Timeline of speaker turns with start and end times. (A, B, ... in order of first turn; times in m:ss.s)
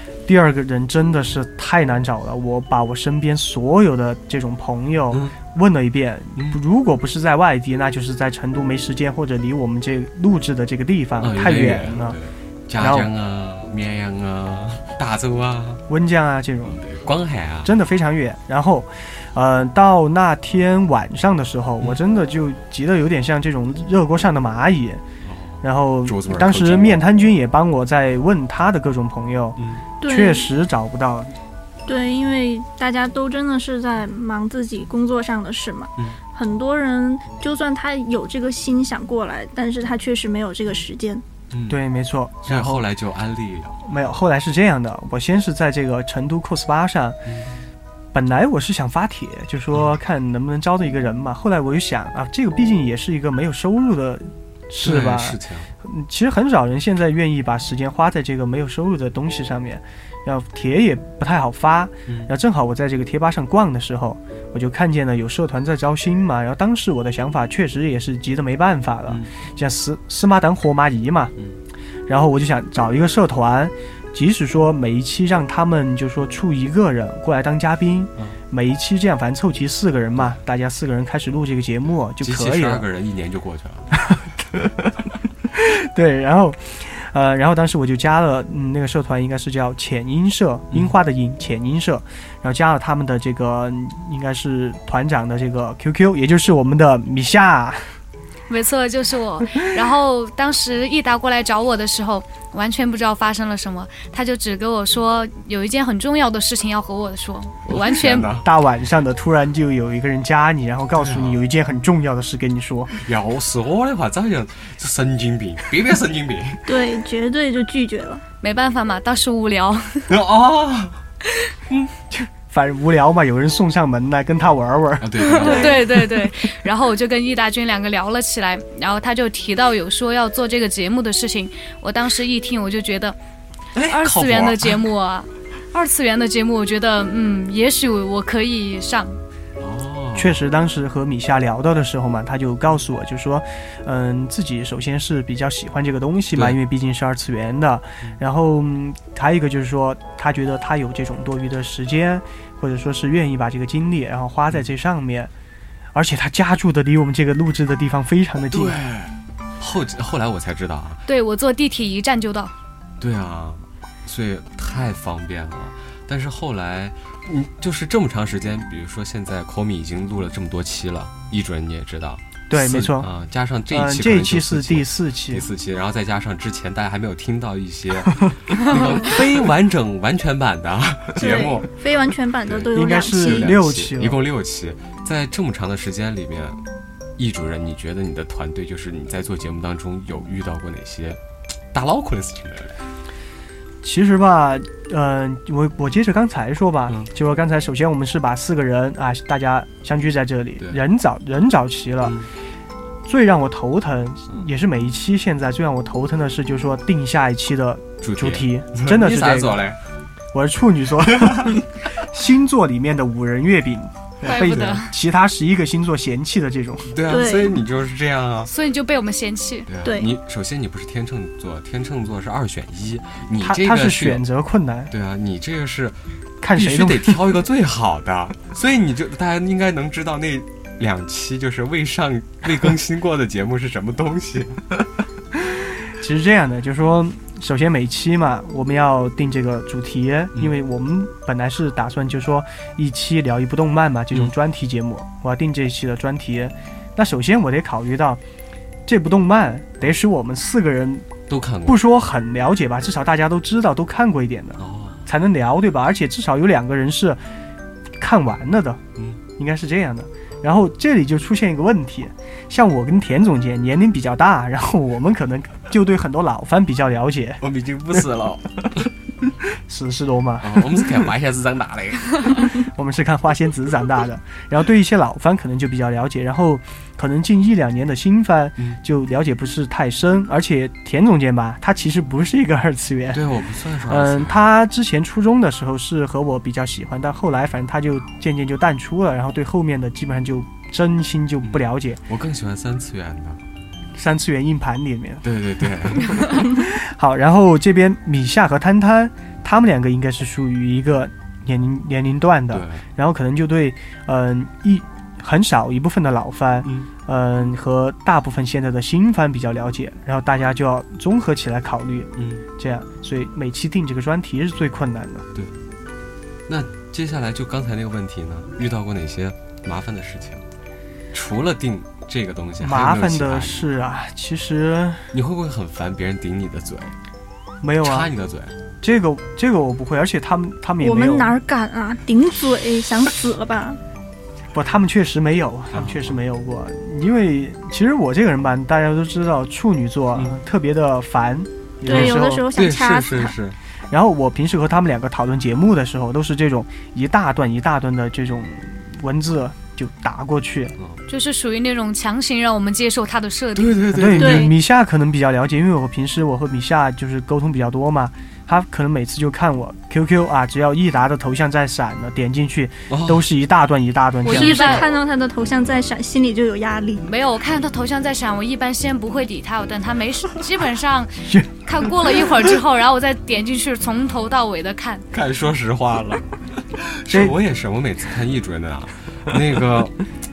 0:00.2-0:12.2 A
0:11.2-0:15.8 B
0:12.8-0:13.1 A
0:15.9-0:16.8 A
0:16.7-0:17.7 B
0:17.6-0:25.0 A
0:25.2-0:27.0 B
0:25.6-0:31.3 A
0:29.6-0:29.8 B
0:30.0-0:30.5 C
0:31.8-0:41.2 C
0:41.5-0:41.8 B
0:41.7-0:42.8 A
0:42.4-0:43.8 B
0:43.8-0:47.2 A
0:47.2-0:47.5 B
0:48.1-1:11.3 A
0:54.8-0:55.7 B
1:12.1-1:22.8 A
1:22.2-1:23.9 B
1:24.0-1:24.2 A
1:25.5-1:37.8 A
1:38.5-1:48.3 D
1:47.6-1:48.5 B
1:48.4-1:52.9 A
1:51.0-1:51.4 B
1:52.9-1:56.6 B
1:56.6-1:58.2 C
1:58.4-2:00.1 D
2:00.1-2:01.0 B
2:02.1-2:05.6 A
2:05.0-2:06.0 B
2:05.2-2:13.2 D
2:13.7-2:14.8 B
2:13.9-2:19.2 D
2:19.6-2:20.4 B
2:20.2-2:35.3 A
2:35.9-2:38.8 A
2:38.5-2:41.0 B
2:41.1-2:42.5 D
2:43.0-3:01.7 B
2:52.5-2:53.1 A
2:53.7-2:55.4 A
3:01.2-3:03.5 C
3:01.2-3:01.6 D
3:02.4-3:06.6 B
3:02.7-3:04.2 A
3:07.2-3:11.2 B
3:11.7-3:12.8 B
3:13.8-3:22.2 A
3:22.0-3:22.3 B
3:23.0-3:29.6 A
3:28.0-3:29.8 B
3:30.3-3:36.9 A
3:31.2-3:31.6 B
3:34.2-3:34.9 D
3:36.9-3:38.5 B
3:37.0-3:37.6 C
3:38.4-3:39.7 D
3:39.7-3:44.2 B
3:39.8-3:40.1 C
3:43.4-3:44.9 A
3:44.9-3:46.0 B
3:46.4-3:47.2 A
3:46.5-3:54.8 B
3:56.0-4:08.2 A
4:08.8-4:11.1 A
4:11.3-4:11.8 B
4:11.6-4:17.2 A
4:14.6-4:15.1 B
4:18.0-4:18.8 A
4:19.4-4:27.4 A
4:27.4-4:28.9 B
4:29.7-4:30.9 A
4:30.4-4:32.5 B
4:32.6-4:43.2 A
4:43.1-4:44.4 B
4:43.9-4:52.0 A
4:51.4-4:53.4 B
4:53.9-4:55.2 A
4:55.2-4:56.6 B
4:56.3-5:15.2 A
5:02.5-5:02.8 B
5:06.6-5:06.9 B
5:12.2-5:12.4 B
5:16.5-5:20.4 B
5:21.1-5:23.6 B
5:22.6-5:25.1 A
5:25.1-5:26.9 B
5:27.6-5:28.1 A
5:27.8-5:28.5 B
5:28.8-5:31.4 A
5:30.8-5:33.8 C
5:34.5-5:42.4 A
5:35.7-5:36.2 B
5:41.8-5:43.3 C
5:41.8-5:43.6 B
5:43.9-5:50.8 A
5:51.1-5:53.8 D
5:53.5-5:54.5 B
5:53.9-6:04.9 A
5:54.2-5:54.5 C
6:02.9-6:03.2 B
6:04.2-6:05.0 D
6:04.2-6:07.1 C
6:07.0-6:15.0 D
6:11.3-6:11.5 A
6:15.1-6:20.0 B
6:17.1-6:17.3 A